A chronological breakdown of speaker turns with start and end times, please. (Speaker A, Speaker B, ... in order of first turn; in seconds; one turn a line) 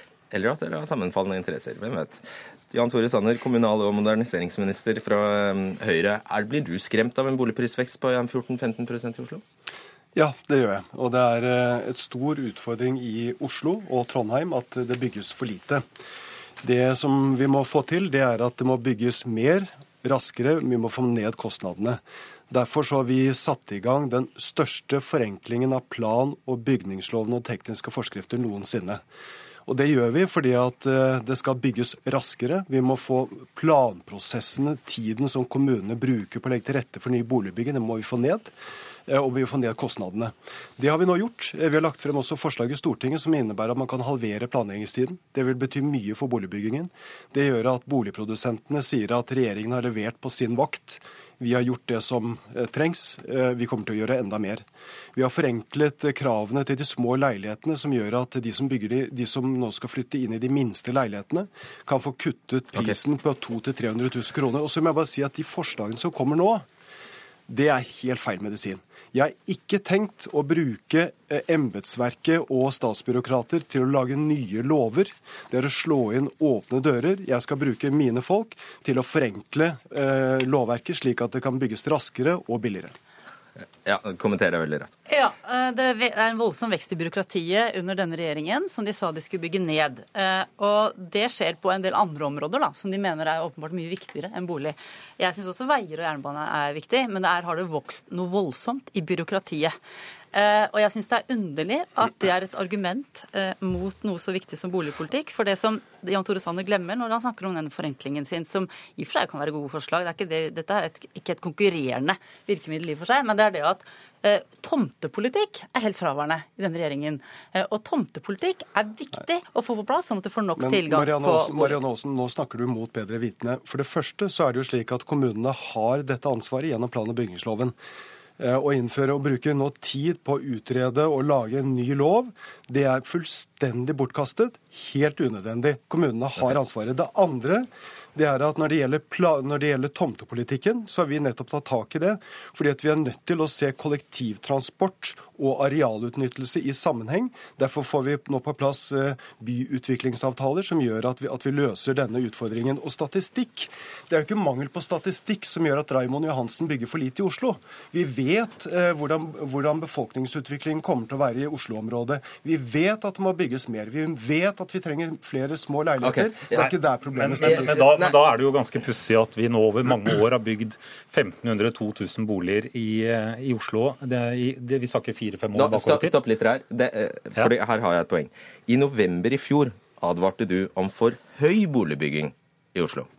Speaker A: 0.3-9.4
Speaker B: 10.2-15.8
Speaker B: 16.6-29.0
Speaker B: 29.7-38.5
Speaker B: 39.1-54.6
Speaker B: 55.2-66.6
Speaker B: 67.5-82.9
Speaker A: 83.8-85.0
Speaker C: 85.1-99.8
Speaker C: 100.3-121.8
Speaker B: 120.6-127.8
Speaker B: 128.4-167.9
Speaker A: 166.0-166.7
Speaker D: 166.6-176.2
Speaker A: 167.3-168.2
Speaker A: 175.6-183.1